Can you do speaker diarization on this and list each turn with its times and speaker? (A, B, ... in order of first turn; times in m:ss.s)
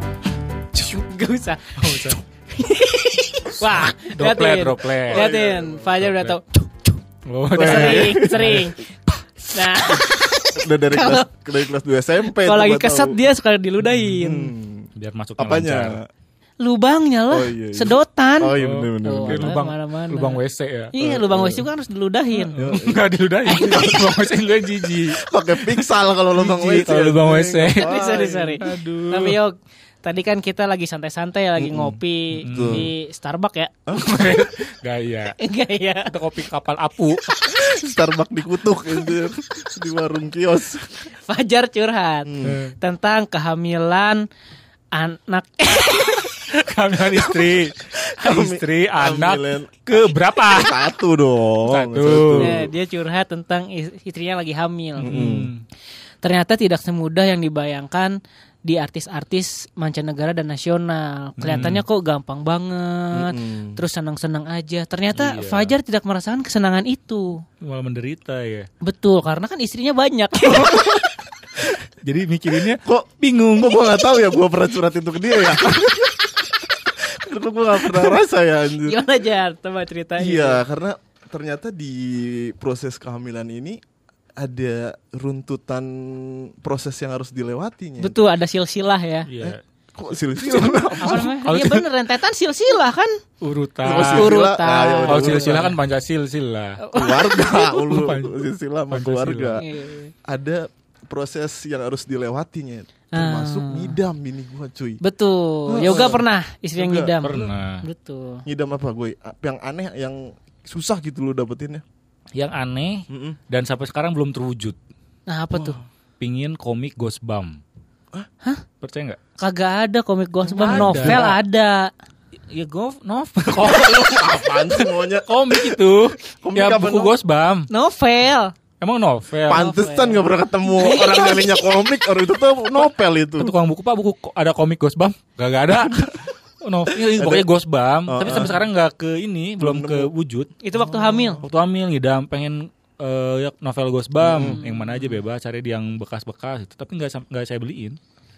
0:00.7-0:06.8 A
0:01.8-0:02.2 B
0:03.6-0:05.3 B
0:05.1-0:06.0 C
0:06.0-0:06.4 B
0:07.2-0:08.7 B
0:07.5-0:08.7 C
0:07.6-0:08.9 A
0:09.5-0:11.3 A
0:10.5-0:13.2 C
0:12.3-0:14.5 A
0:14.2-0:16.1 C
0:15.0-0:16.0 B
0:16.6-0:20.4 A
0:17.3-0:19.6 C
0:18.5-0:20.9 B
0:20.9-0:22.6 A
0:21.0-0:21.7 C
0:22.5-0:24.2 C
0:22.5-0:27.9 B
0:23.5-0:24.0 A
0:25.1-0:28.6 C
0:27.7-0:33.7 A
0:28.6-0:29.4 B
0:31.6-0:32.9 C
0:32.4-0:32.9 B
0:33.9-0:34.4 C
0:33.9-0:35.4 B
0:35.4-0:36.2 A
0:36.1-0:37.4 B
0:37.5-0:41.0 C
0:41.1-0:44.2 A
0:42.2-0:42.6 C
0:44.9-0:46.2 A
0:45.9-0:50.8 B
0:47.9-0:49.8 C
0:50.4-0:52.7 C
0:51.7-0:52.6 B
0:52.4-0:55.1 A
0:55.0-0:55.6 B
0:55.0-0:55.5 C
0:56.2-1:07.4 A
1:01.4-1:01.8 B
1:03.1-1:03.8 C
1:05.1-1:05.7 B
1:07.6-1:08.7 B
1:08.8-1:11.0 A
1:10.5-1:11.1 C
1:11.6-1:13.8 B
1:12.6-1:19.0 C
1:18.8-1:20.6 A
1:20.2-1:23.8 C
1:24.4-1:28.1 C
1:28.0-1:29.3 A
1:29.2-1:29.6 B
1:29.4-1:31.4 C
1:30.4-1:31.8 B
1:31.0-1:33.1 A
1:33.4-1:34.3 B
1:33.8-1:35.8 C
1:33.9-1:35.7 A
1:35.1-1:36.8 B
1:36.8-1:37.9 A
1:36.9-1:39.7 C
1:37.7-1:39.6 B
1:39.6-1:40.1 A
1:40.2-1:45.0 C
1:43.1-1:44.0 A
1:45.0-1:48.4 A
1:45.7-1:46.2 C
1:45.8-1:46.2 B
1:46.8-1:47.5 C
1:47.2-1:47.8 B
1:48.4-1:51.8 C
1:52.3-1:54.8 B
1:53.1-1:53.4 C
1:55.2-1:55.8 A
1:55.5-1:55.8 C
1:56.2-1:57.6 B
1:58.8-1:59.2 B
1:59.4-2:01.9 A
2:00.5-2:01.4 B
2:00.6-2:01.3 C
2:02.5-2:07.7 B
2:03.5-2:07.2 C
2:07.7-2:08.5 A
2:08.8-2:09.6 B
2:09.4-2:13.6 C
2:09.5-2:11.7 A
2:13.4-2:20.5 B
2:17.0-2:17.5 C
2:18.0-2:18.7 C
2:19.6-2:20.1 C
2:20.6-2:21.4 A
2:20.7-2:21.4 C
2:21.4-2:28.0 B
2:24.2-2:24.6 C
2:24.4-2:25.2 A